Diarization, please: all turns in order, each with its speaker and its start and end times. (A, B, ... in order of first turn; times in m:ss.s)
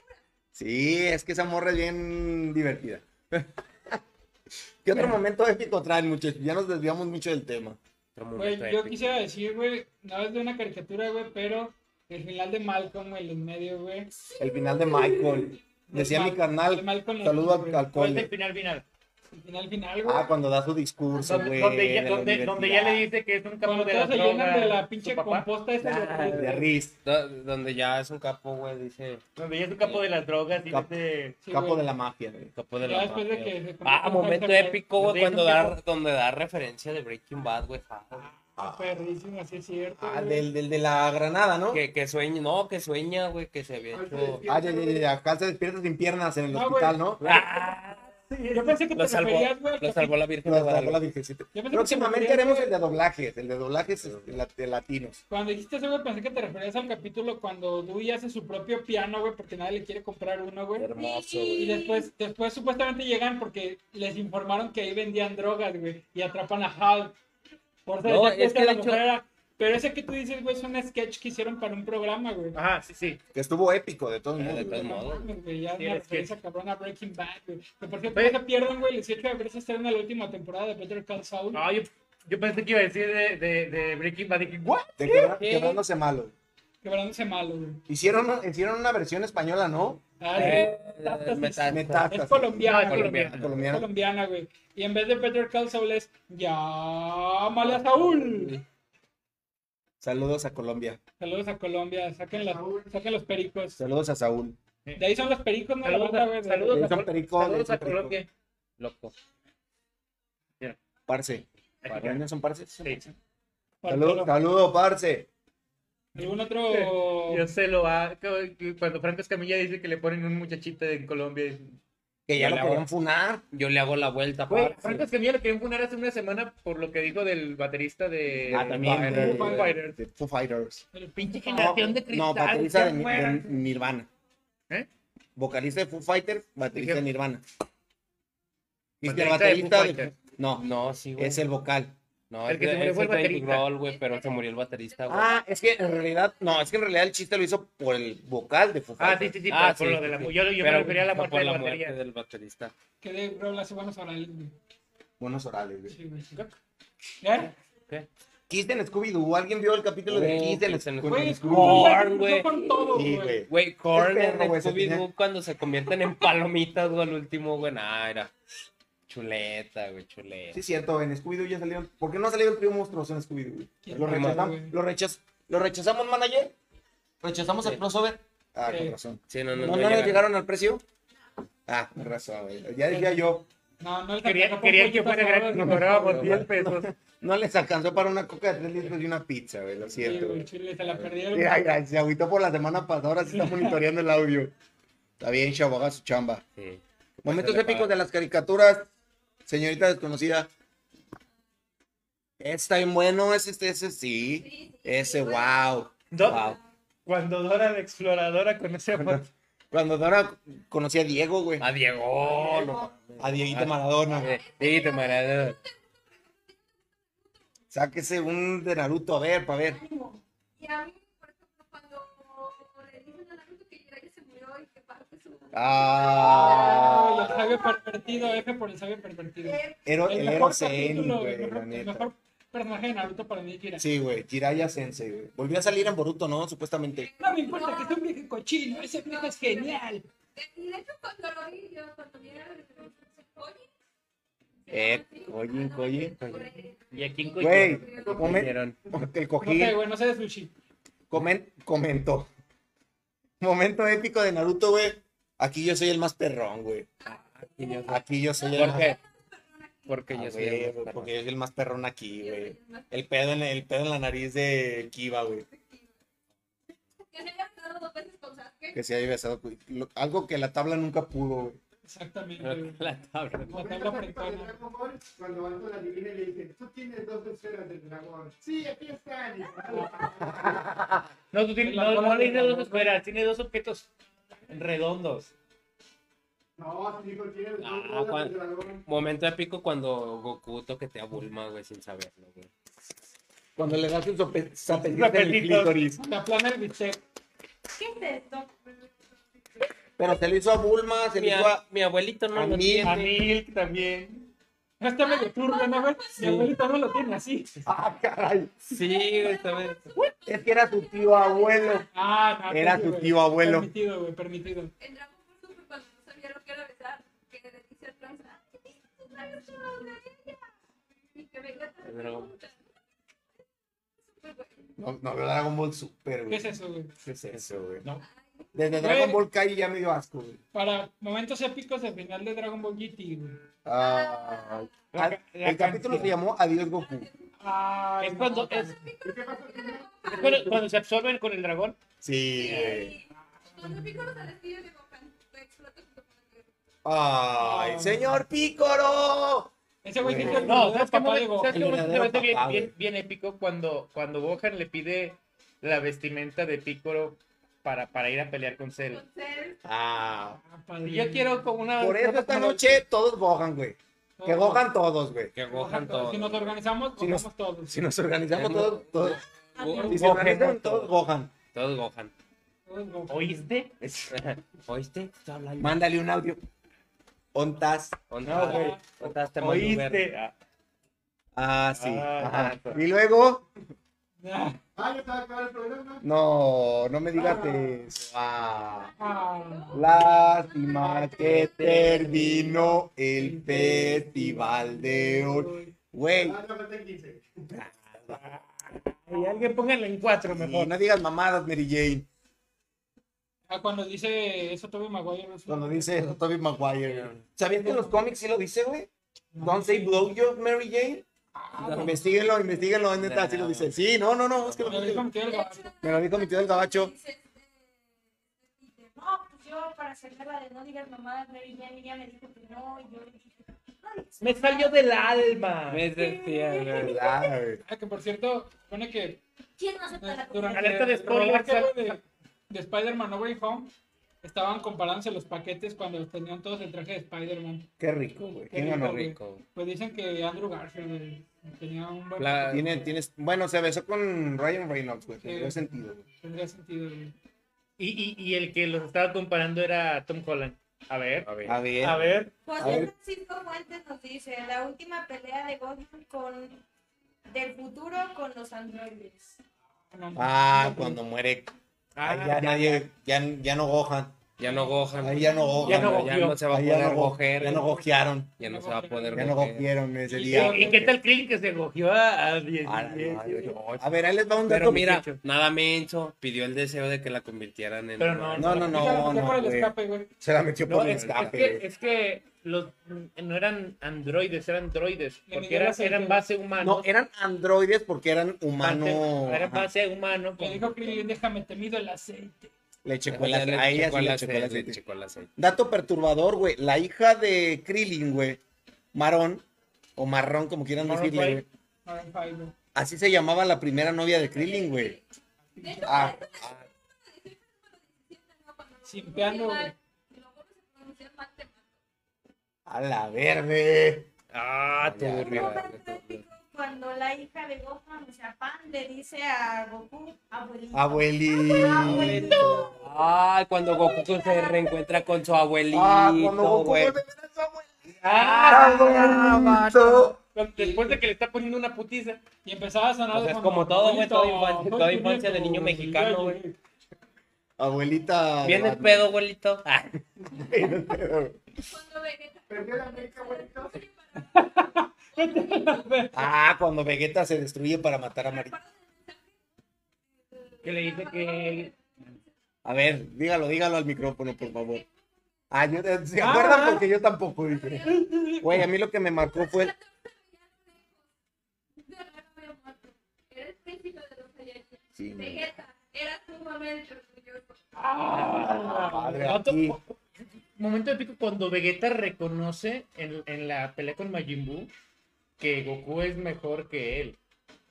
0:00.6-0:04.0 A
0:04.8-0:07.8 A
0:08.2-0:09.2 B
0:08.4-0:14.1 C
0:14.4-0:18.3 A
0:15.9-0:17.8 C
0:17.9-0:18.8 D
0:19.4-0:20.3 C
0:20.0-0:23.1 A
0:21.2-0:25.5 D
0:23.6-0:26.6 C
0:25.8-0:26.5 B
0:26.0-0:27.0 A
0:27.0-0:29.2 B
0:29.4-0:31.4 D
0:31.4-0:31.9 C
0:31.5-0:32.5 A
0:32.6-0:38.3 B
0:32.8-0:34.8 C
0:35.0-0:35.8 D
0:38.6-0:40.4 C
0:38.6-0:39.0 A
0:40.0-0:41.8 A
0:41.7-0:44.4 B
0:43.9-0:45.0 E
0:44.5-0:47.2 A
0:46.5-0:47.0 C
0:47.2-0:48.3 B
0:47.3-0:47.7 D
0:48.3-0:48.7 D
0:48.5-0:50.1 C
0:48.8-0:51.0 B
0:50.4-0:55.2 A
0:51.5-0:52.7 C
0:55.3-1:00.9 C
1:00.8-1:01.8 B
1:01.0-1:02.1 F
1:01.0-1:01.4 A
1:01.6-1:07.2 C
1:07.9-1:12.6 C
1:08.0-1:09.1 B
1:12.5-1:13.2 D
1:13.3-1:15.0 A
1:14.4-1:15.2 B
1:14.8-1:21.6 C
1:15.8-1:16.3 D
1:21.5-1:24.9 D
1:25.0-1:26.3 A
1:25.2-1:25.8 B
1:26.8-1:27.8 C
1:27.9-1:30.0 A
1:30.2-1:38.6 C
1:30.4-1:32.1 B
1:31.7-1:33.9 A
1:32.6-1:33.4 D
1:32.7-1:33.7 B
1:37.7-1:38.6 B
1:40.0-1:41.0 A
1:41.2-1:43.8 C
1:42.3-1:42.9 E
1:43.8-1:44.6 A
1:45.0-1:46.9 C
1:45.8-1:48.3 D
1:46.7-1:48.2 A
1:48.8-1:49.1 B
1:51.1-1:53.0 A
1:51.8-1:52.2 D
1:52.8-1:53.1 D
1:53.8-1:54.3 C
1:53.9-1:55.3 A
1:56.2-1:57.5 C
1:56.7-2:01.8 D
2:02.3-2:03.4 A
2:02.4-2:02.8 B
2:03.5-2:05.1 B
2:04.5-2:10.0 D
2:08.4-2:09.7 B
2:08.5-2:10.8 A
2:09.1-2:09.8 C
2:10.9-2:12.0 C
2:11.2-2:13.5 D
2:11.6-2:14.1 A
2:15.4-2:17.4 A
2:16.8-2:17.0 D
2:19.0-2:22.0 A
2:19.0-2:20.1 D
2:20.6-2:21.4 B
2:22.3-2:25.3 B
2:22.5-2:23.7 D
2:25.1-2:29.4 A
2:29.0-2:32.0 D
2:29.5-2:32.7 B
2:33.0-2:34.6 C
2:35.2-2:36.0 A
2:35.9-2:36.4 C
2:37.2-2:37.5 C
2:38.5-2:42.0 A
2:40.1-2:48.3 B
2:41.1-2:43.4 C
2:42.9-2:45.1 A
2:49.1-2:50.6 B
2:50.5-2:56.6 A
2:53.8-2:54.8 C
2:53.9-2:54.5 B
2:57.2-3:00.8 A
2:58.7-2:59.0 C
2:59.3-3:00.3 B
3:01.7-3:03.5 A
3:02.9-3:03.2 C
3:03.8-3:06.3 C
3:04.2-3:06.9 D
3:05.5-3:10.4 A
3:10.0-3:11.7 C
3:11.3-3:14.5 A
3:13.3-3:13.8 C
3:15.2-3:16.4 A
3:16.6-3:17.9 B
3:17.2-3:18.9 A
3:19.5-3:20.5 A
3:22.4-3:26.6 A
3:24.4-3:25.7 F
3:26.1-3:26.5 D
3:27.1-3:29.3 D
3:29.7-3:31.7 A
3:31.6-3:35.6 B
3:33.2-3:34.4 A
3:34.5-3:35.3 F
3:37.7-3:39.8 A
3:39.7-3:47.6 F
3:45.5-3:47.4 A
3:46.2-3:53.9 C
3:49.4-3:49.8 F
3:49.9-3:52.1 A
3:53.8-3:57.1 A
3:57.1-3:58.0 F
3:57.2-4:00.0 C
3:58.8-3:59.8 F
4:00.4-4:03.7 F
4:04.7-4:08.1 F
4:04.7-4:06.2 A
4:06.2-4:06.5 B
4:06.9-4:07.9 D
4:07.4-4:09.8 A
4:08.1-4:08.8 B
4:09.4-4:10.5 C
4:11.1-4:12.3 A
4:13.4-4:16.9 A
4:17.0-4:17.9 F
4:17.0-4:18.0 B
4:17.9-4:19.0 A
4:18.5-4:19.0 B
4:19.4-4:19.9 F
4:19.9-4:21.1 B
4:20.1-4:25.5 A
4:22.2-4:22.9 F
4:27.1-4:28.8 F
4:28.7-4:31.6 A
4:31.8-4:32.8 C
4:32.4-4:33.6 B
4:33.5-4:34.5 C
4:33.6-4:40.6 E
4:40.4-4:40.9 A
4:41.3-4:43.9 D
4:41.6-4:43.0 C
4:44.5-4:45.3 D
4:46.6-4:48.8 E
4:47.6-4:52.5 B
4:53.6-4:56.0 A
4:54.7-4:55.9 D
4:56.0-4:57.0 C
4:57.8-4:58.5 F
5:00.0-5:01.6 A
5:01.1-5:03.1 B
5:02.3-5:03.0 A
5:02.8-5:04.3 D
5:04.8-5:07.6 C
5:05.2-5:05.9 F
5:06.2-5:06.5 B
5:07.6-5:08.6 A
5:08.7-5:09.8 B
5:10.2-5:11.9 A
5:11.0-5:11.8 F
5:11.9-5:14.7 C
5:12.5-5:13.7 A
5:14.8-5:20.4 F
5:21.2-5:22.5 F
5:21.8-5:22.4 B
5:24.2-5:24.5 F
5:24.8-5:27.8 A
5:26.3-5:26.9 C
5:28.5-5:30.4 A
5:28.8-5:29.2 C
5:30.5-5:33.4 C
5:33.6-5:37.1 A
5:34.9-5:36.1 D
5:37.4-5:38.8 C
5:38.0-5:38.8 D
5:38.8-5:40.2 F
5:39.0-5:40.6 E
5:40.1-5:41.8 D
5:42.0-5:43.0 A
5:42.4-5:42.8 D
5:42.5-5:43.0 F
5:43.5-5:44.0 C
5:43.6-5:46.0 F
5:46.8-5:50.6 A
5:47.4-5:48.2 C
5:49.8-5:51.6 C
5:50.3-5:59.1 D
5:51.5-5:52.7 A
5:58.9-5:59.6 F
5:59.6-6:00.4 A
6:00.4-6:01.5 C
6:00.8-6:02.8 D
6:01.8-6:05.3 A
6:04.2-6:04.7 C
6:05.4-6:06.5 B
6:05.5-6:07.8 C
6:07.0-6:09.2 A
6:08.3-6:10.9 B
6:09.6-6:10.0 F
6:09.6-6:10.0 C
6:09.9-6:11.3 A
6:11.5-6:12.1 B
6:12.7-6:13.5 C
6:13.1-6:13.8 D
6:14.1-6:15.8 B
6:15.6-6:16.4 A
6:17.3-6:18.0 A
6:18.1-6:20.1 B
6:18.2-6:20.4 D
6:18.3-6:18.8 C
6:21.4-6:23.5 A
6:21.7-6:22.8 D
6:24.2-6:24.6 C
6:24.8-6:26.0 E
6:26.0-6:28.9 A
6:27.2-6:27.8 C
6:28.8-6:29.9 F
6:29.0-6:30.0 C
6:29.7-6:36.4 A
6:30.4-6:31.0 F
6:30.7-6:31.3 C
6:31.2-6:32.7 B
6:33.2-6:35.7 C
6:36.2-6:37.5 E
6:37.5-6:38.2 A
6:38.1-6:40.7 D
6:40.3-6:42.1 A
6:43.5-6:46.1 C
6:45.5-6:48.9 A
6:46.8-6:47.2 B
6:47.6-6:48.0 C
6:49.3-6:50.1 C
6:49.4-6:51.0 A
6:51.4-6:52.0 C
6:51.6-6:52.0 B
6:51.8-6:55.1 A
6:52.9-6:53.8 B
6:54.4-6:54.9 B
6:54.7-6:55.7 C
6:55.1-6:57.5 F
6:55.8-6:56.9 A
6:58.6-7:05.2 F
7:04.2-7:05.9 D
7:05.7-7:07.0 B
7:06.0-7:07.2 F
7:06.8-7:07.6 A
7:07.6-7:09.2 C
7:09.6-7:10.8 F
7:10.0-7:13.7 C
7:10.5-7:12.0 D
7:14.2-7:17.7 C
7:17.8-7:19.2 A
7:18.5-7:22.8 C
7:19.0-7:19.4 B
7:22.2-7:22.7 B
7:22.5-7:26.0 A
7:25.2-7:25.7 C
7:26.2-7:27.2 C
7:27.8-7:32.3 D
7:31.2-7:31.6 B
7:31.5-7:32.9 A
7:32.4-7:36.6 F
7:37.3-7:39.4 F
7:39.9-7:41.0 C
7:40.2-7:44.2 A
7:42.0-7:42.8 D
7:44.4-7:47.7 B
7:44.4-7:45.7 C
7:45.0-7:48.3 A
7:45.7-7:46.4 D
7:47.5-7:47.8 C
7:48.4-7:49.7 B
7:48.4-7:49.3 C
7:49.2-7:50.9 A
7:50.1-7:50.9 C
7:50.2-7:53.8 D
7:52.6-7:55.0 A
7:53.3-7:53.8 B
7:54.5-7:58.8 B
7:58.0-7:59.0 D
7:58.4-8:01.6 A
7:58.7-8:00.1 C
8:00.7-8:06.9 D
8:00.8-8:01.3 B
8:05.3-8:06.2 C
8:06.6-8:09.7 A
8:08.6-8:10.7 D
8:10.4-8:12.5 C
8:12.8-8:14.8 A
8:13.1-8:15.3 B
8:15.4-8:18.4 A
8:18.9-8:19.4 A
8:20.0-8:21.4 A
8:20.8-8:21.4 D
8:21.8-8:22.5 C
8:22.8-8:25.0 A
8:24.3-8:25.0 F
8:25.6-8:26.5 F
8:25.8-8:26.7 A
8:27.1-8:31.6 F
8:28.8-8:29.7 C
8:32.7-8:34.1 A
8:34.3-8:36.2 B
8:34.8-8:35.6 A
8:35.1-8:42.8 F
8:40.7-8:42.8 A
8:42.8-8:47.0 B
8:43.7-8:45.0 F
8:45.7-8:50.2 A
8:48.0-8:49.3 D
8:48.1-8:50.1 B
8:50.3-8:52.2 D
8:50.6-8:51.0 C
8:52.4-8:56.6 C
8:53.1-8:56.4 B
8:57.6-8:59.1 A
8:58.4-9:00.0 B
9:00.3-9:01.4 A
9:01.7-9:04.4 F
9:02.5-9:03.8 E
9:04.2-9:06.2 C
9:05.2-9:06.1 F
9:06.1-9:08.6 A
9:08.3-9:09.2 F
9:10.5-9:11.7 F
9:10.6-9:11.7 D
9:12.6-9:14.8 A
9:15.5-9:19.7 A
9:16.2-9:16.9 C
9:17.9-9:18.7 C
9:19.4-9:20.9 F
9:21.8-9:27.6 F
9:25.0-9:25.6 A
9:27.8-9:29.9 D
9:28.1-9:29.8 A
9:28.2-9:28.6 C
9:30.6-9:34.7 D
9:35.4-9:37.2 D